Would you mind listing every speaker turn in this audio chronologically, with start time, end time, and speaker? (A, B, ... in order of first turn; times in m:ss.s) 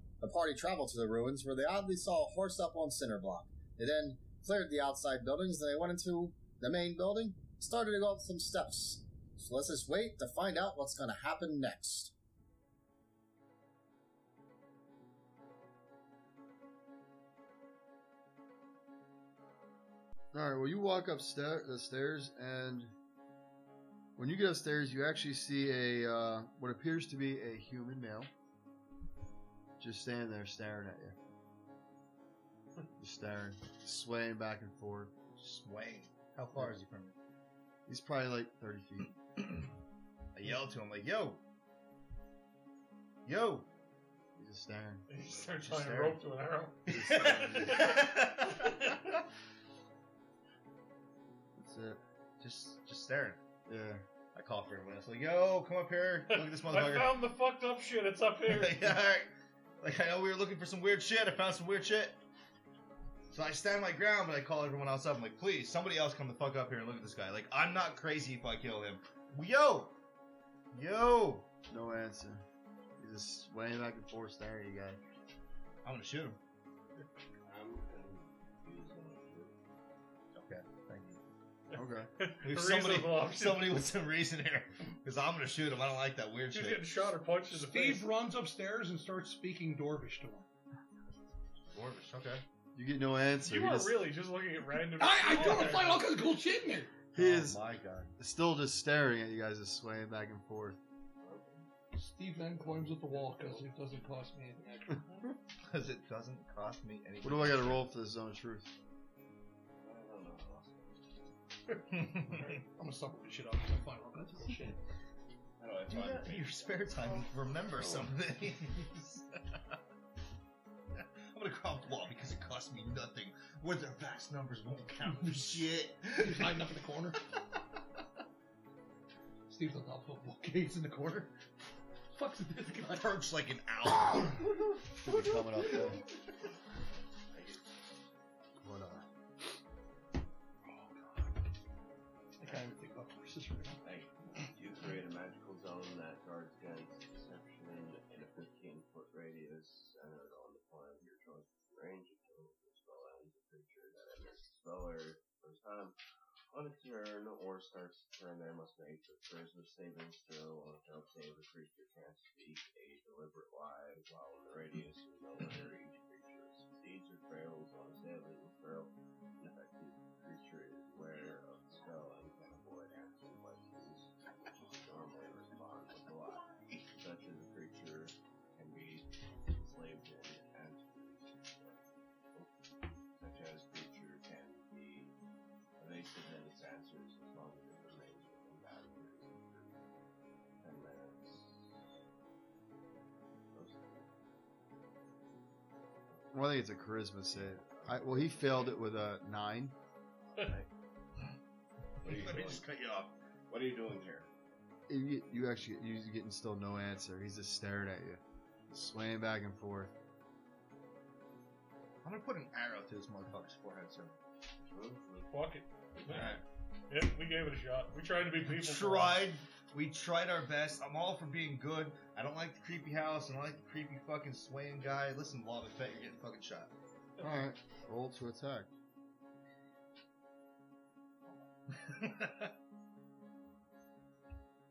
0:00.2-0:12.1 A
0:20.3-0:22.9 B
0:24.2-0:28.3 B
0:29.8-0:31.2 B
0:33.0-0:35.1 B
0:35.4-0:37.2 C
0:37.9-0:39.2 B
0:40.3-0:41.4 C
0:43.2-0:43.7 C
0:44.4-0:45.0 B
0:45.1-0:49.2 D
0:45.2-0:46.2 C
0:46.9-0:48.9 C
0:46.9-0:47.8 B
0:51.6-0:52.0 B
0:52.4-0:53.4 C
0:53.7-0:54.0 B
0:54.3-0:57.2 C
0:56.3-0:59.0 D
0:58.4-1:02.2 C
1:03.3-1:10.0 C
1:10.7-1:11.5 C
1:11.7-1:12.4 B
1:13.0-1:15.0 B
1:15.8-1:16.4 C
1:17.4-1:19.6 E
1:20.3-1:21.2 C
1:21.7-1:23.8 D
1:21.7-1:22.1 B
1:22.4-1:27.1 C
1:26.5-1:28.1 D
1:27.5-1:30.5 F
1:31.7-1:32.4 C
1:32.8-1:34.0 B
1:33.4-1:36.1 D
1:35.0-1:36.9 F
1:35.4-1:35.8 C
1:37.1-1:37.6 B
1:37.2-1:38.1 C
1:38.2-1:40.8 B
1:41.2-1:41.6 E
1:41.9-1:45.2 F
1:45.6-1:47.9 C
1:47.2-1:48.7 B
1:49.8-1:51.0 E
1:51.9-1:52.6 C
1:52.2-1:54.8 F
1:55.6-1:58.1 E
1:55.9-1:59.4 C
2:01.0-2:06.6 C
2:06.2-2:07.2 F
2:09.5-2:11.4 F
2:12.1-2:13.2 F
2:12.9-2:14.5 C
2:15.0-2:16.0 B
2:17.3-2:17.8 E
2:18.6-2:19.1 B
2:20.7-2:21.3 F
2:22.4-2:23.8 F
2:23.8-2:36.0 E
2:36.5-3:01.8 E
3:03.2-3:05.1 E
3:05.8-3:09.8 E
3:10.6-3:11.7 E
3:13.5-3:14.1 E
3:16.3-3:19.8 B
3:17.3-3:18.8 E
3:20.4-3:20.7 E
3:22.0-3:22.7 E
3:22.0-3:23.1 C
3:23.5-3:24.3 E
3:24.9-3:29.9 B
3:32.0-3:34.2 C
3:34.7-3:35.3 E
3:35.3-3:39.2 D
3:36.0-3:36.4 C
3:38.4-3:46.7 C
3:47.2-3:48.7 B
3:51.7-3:52.5 C